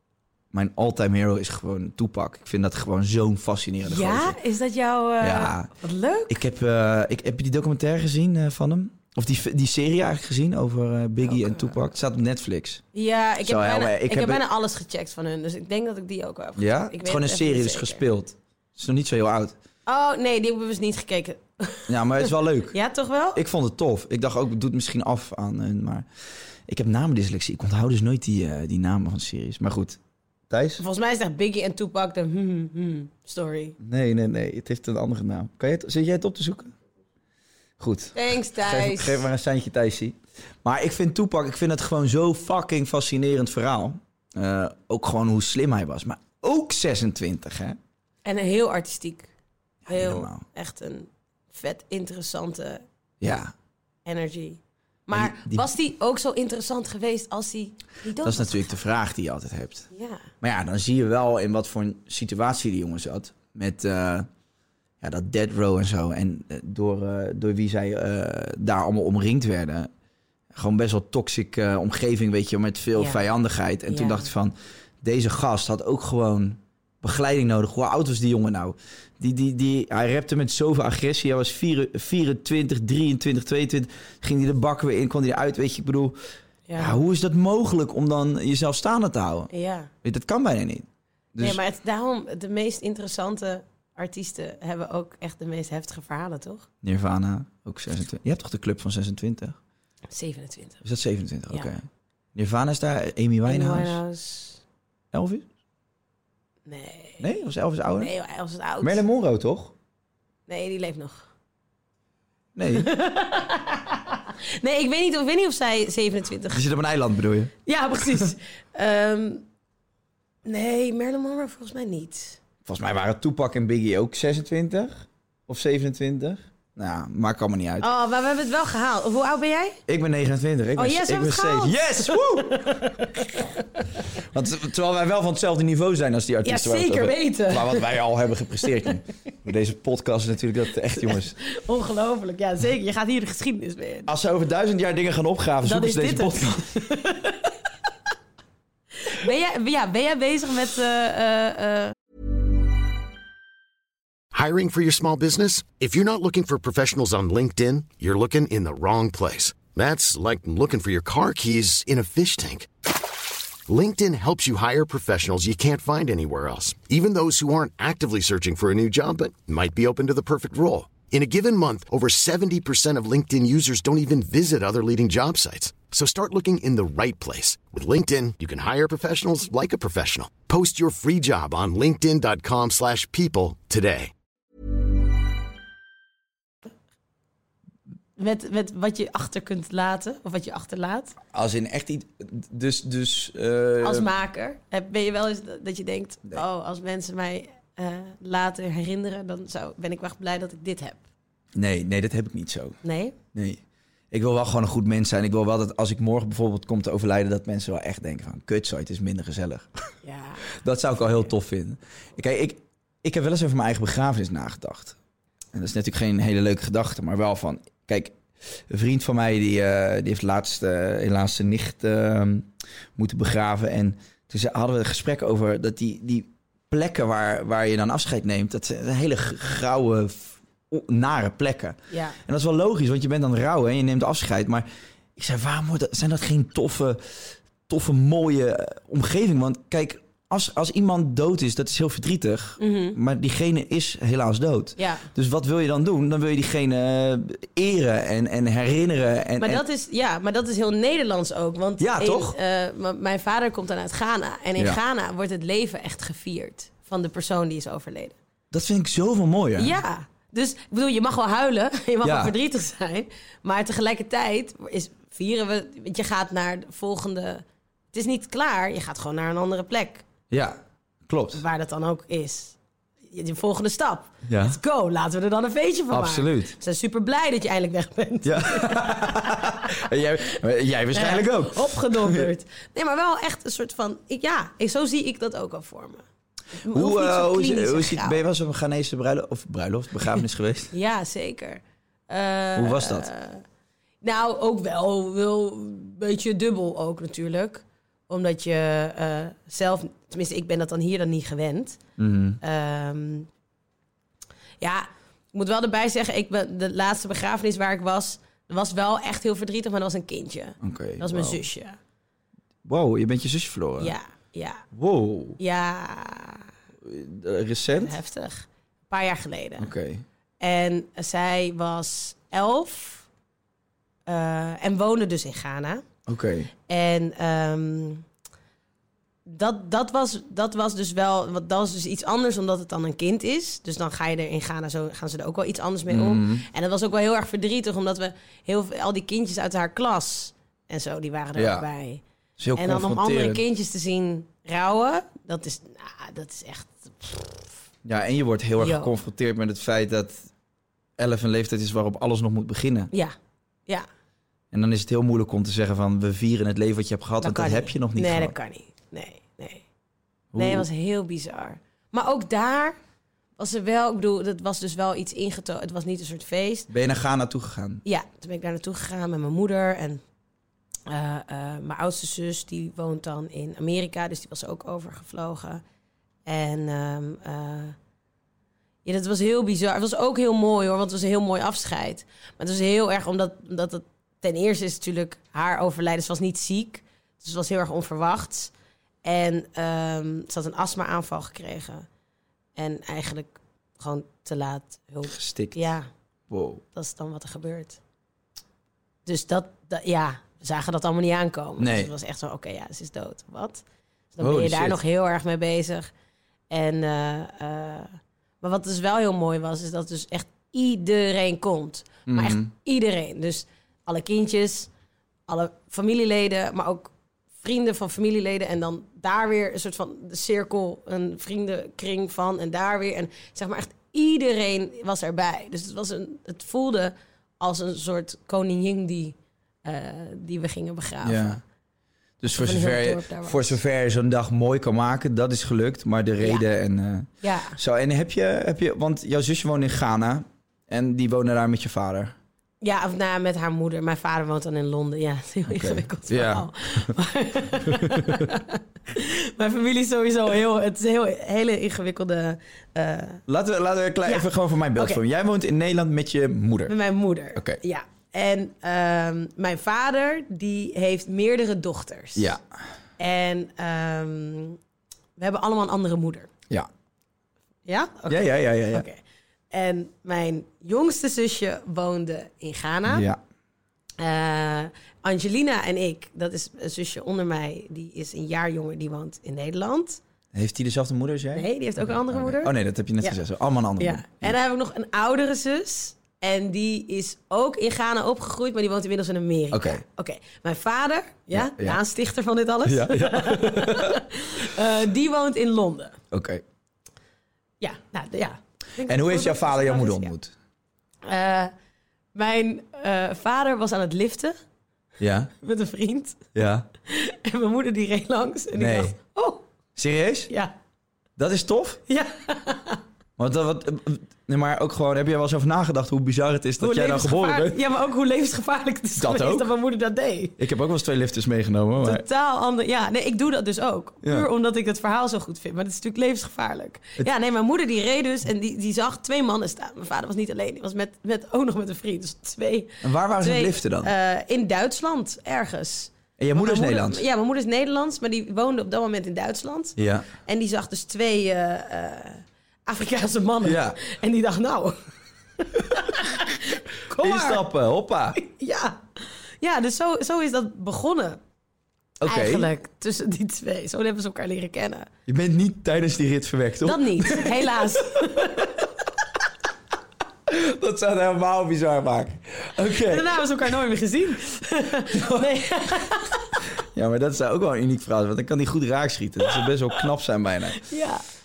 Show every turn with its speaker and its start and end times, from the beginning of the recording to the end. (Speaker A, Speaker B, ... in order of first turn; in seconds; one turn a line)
Speaker A: 0.5-4.3
Speaker B: 3.8-6.4
Speaker A: 5.2-5.7
Speaker A: 6.3-12.8
Speaker B: 11.2-11.7
Speaker B: 12.9-18.0
Speaker A: 13.4-14.4
Speaker A: 16.6-19.6
Speaker B: 19.9-23.4
Speaker A: 21.9-22.8
Speaker A: 23.3-26.1
Speaker A: 26.7-30.0
Speaker A: 30.5-30.8
Speaker B: 30.8-33.8
Speaker A: 33.8-36.7
Speaker A: 37.8-47.8
Speaker B: 38.1-39.2
Speaker B: 48.2-49.3
Speaker A: 49.8-50.4
Speaker B: 49.9-52.8
Speaker A: 53.2-53.5
Speaker B: 54.0-58.8
Speaker A: 55.1-55.6
Speaker A: 58.2-59.9
Speaker B: 59.9-60.2
Speaker A: 60.4-64.3
Speaker A: 65.0-69.9
Speaker A: 70.5-86.2
Speaker B: 72.9-73.2
Speaker B: 73.9-74.3
Speaker B: 86.7-87.0
Speaker A: 86.8-89.5
Speaker B: 89.5-89.9
Speaker A: 90.0-91.6
Speaker B: 91.4-96.7
Speaker A: 96.8-99.6
Speaker B: 100.1-100.8
Speaker A: 100.8-104.0
Speaker B: 103.5-104.6
Speaker A: 105.1-105.5
Speaker B: 106.7-107.3
Speaker A: 107.2-108.1
Speaker B: 108.0-109.0
Speaker A: 108.8-109.7
Speaker B: 110.5-111.3
Speaker A: 112.5-112.9
Speaker B: 112.8-116.7
Speaker A: 116.5-117.5
Speaker B: 117.7-119.4
Speaker B: 120.4-122.4
Speaker A: 122.6-127.9
Speaker B: 127.8-129.8
Speaker A: 129.9-133.0
Speaker B: 130.8-134.0
Speaker A: 134.2-141.4
Speaker B: 136.4-138.0
Speaker B: 141.0-144.1
Speaker A: 144.1-146.7
Speaker B: 145.6-147.5
Speaker B: 149.0-151.9
Speaker C: 154.3-162.7
Speaker C: 163.7-184.1
Speaker B: 188.2-191.2
Speaker A: 191.3-194.1
Speaker B: 193.8-201.0
Speaker A: 201.6-202.8
Speaker B: 202.8-203.1
Speaker A: 203.3-209.7
Speaker B: 210.0-210.5
Speaker A: 210.6-214.9
Speaker A: 215.5-249.6
Speaker B: 231.9-232.2
Speaker B: 242.6-243.0
Speaker B: 244.8-245.1
Speaker B: 249.4-258.1
Speaker A: 251.8-252.3
Speaker A: 258.5-259.8
Speaker B: 259.6-270.0
Speaker A: 262.0-262.3
Speaker A: 270.3-271.4
Speaker B: 271.3-279.8
Speaker A: 274.3-274.6
Speaker A: 275.9-276.5
Speaker A: 278.2-282.3
Speaker B: 280.9-286.0
Speaker B: 286.6-288.2
Speaker A: 286.7-290.7
Speaker B: 290.7-293.4
Speaker A: 292.6-293.1
Speaker B: 294.0-301.8
Speaker A: 302.0-302.4
Speaker B: 302.4-303.3
Speaker B: 304.6-311.8
Speaker A: 310.6-311.4
Speaker A: 312.6-313.9
Speaker B: 313.8-314.6
Speaker A: 314.7-315.4
Speaker B: 315.4-316.5
Speaker A: 316.8-317.9
Speaker B: 317.8-319.7
Speaker A: 319.6-320.0
Speaker B: 320.4-323.1
Speaker B: 324.1-325.8
Speaker A: 326.1-326.5
Speaker B: 326.7-328.0
Speaker B: 329.2-342.0
Speaker A: 335.9-336.4
Speaker A: 341.4-341.6
Speaker A: 342.4-343.4
Speaker B: 342.6-347.5
Speaker A: 347.8-350.3
Speaker B: 348.6-348.9
Speaker A: 351.0-352.9
Speaker A: 354.5-358.3
Speaker B: 357.2-359.6
Speaker A: 360.3-360.7
Speaker B: 360.4-362.8
Speaker B: 363.4-366.7
Speaker A: 366.7-367.8
Speaker B: 367.8-370.0
Speaker B: 370.9-375.6
Speaker B: 376.2-377.8
Speaker B: 378.8-388.5
Speaker B: 389.0-391.9
Speaker B: 392.6-395.9
Speaker A: 395.1-395.6
Speaker A: 396.3-396.6
Speaker B: 396.7-397.8
Speaker B: 399.1-403.6
Speaker A: 401.6-401.9
Speaker B: 404.1-405.9
Speaker A: 404.2-404.8
Speaker B: 406.5-414.7
Speaker A: 412.1-412.5
Speaker B: 415.3-431.4
Speaker A: 431.0-431.4
Speaker A: 432.2-442.1
Speaker B: 432.3-433.6
Speaker B: 436.2-436.4
Speaker B: 437.2-437.6
Speaker B: 442.6-453.2
Speaker A: 445.5-446.9
Speaker A: 447.6-448.3
Speaker A: 453.3-456.8
Speaker B: 454.0-455.0
Speaker B: 456.7-462.3
Speaker A: 462.1-462.4
Speaker B: 463.0-464.6
Speaker B: 465.2-466.3
Speaker B: 467.6-469.0
Speaker A: 468.1-468.9
Speaker B: 469.5-473.0
Speaker A: 472.9-473.2
Speaker B: 474.0-480.0
Speaker A: 480.3-484.4
Speaker B: 481.3-483.2
Speaker B: 483.8-496.0
Speaker A: 489.5-489.8
Speaker A: 491.3-491.8
Speaker A: 492.6-494.0
Speaker A: 496.1-496.4
Speaker B: 497.6-500.1
Speaker A: 498.8-500.3
Speaker B: 501.0-501.5
Speaker B: 502.1-504.3
Speaker A: 505.0-505.3
Speaker B: 505.4-506.3
Speaker A: 506.3-506.7
Speaker B: 506.9-509.4
Speaker A: 508.5-508.9
Speaker A: 509.8-510.3
Speaker A: 511.2-511.8
Speaker B: 511.9-512.8
Speaker A: 513.2-517.6
Speaker B: 516.6-520.4
Speaker A: 519.0-519.5
Speaker A: 520.4-522.0
Speaker B: 521.8-544.8
Speaker A: 524.0-524.3
Speaker A: 532.8-533.9
Speaker A: 536.2-537.0
Speaker A: 539.8-540.1
Speaker A: 543.4-543.8
Speaker B: 545.4-547.4
Speaker A: 547.0-548.2
Speaker B: 548.2-551.2
Speaker A: 552.0-552.5
Speaker B: 552.0-554.9
Speaker A: 555.1-558.5
Speaker B: 556.6-558.6
Speaker A: 560.3-563.2
Speaker B: 562.8-566.4
Speaker A: 564.9-565.3
Speaker A: 566.7-570.6
Speaker B: 570.6-571.0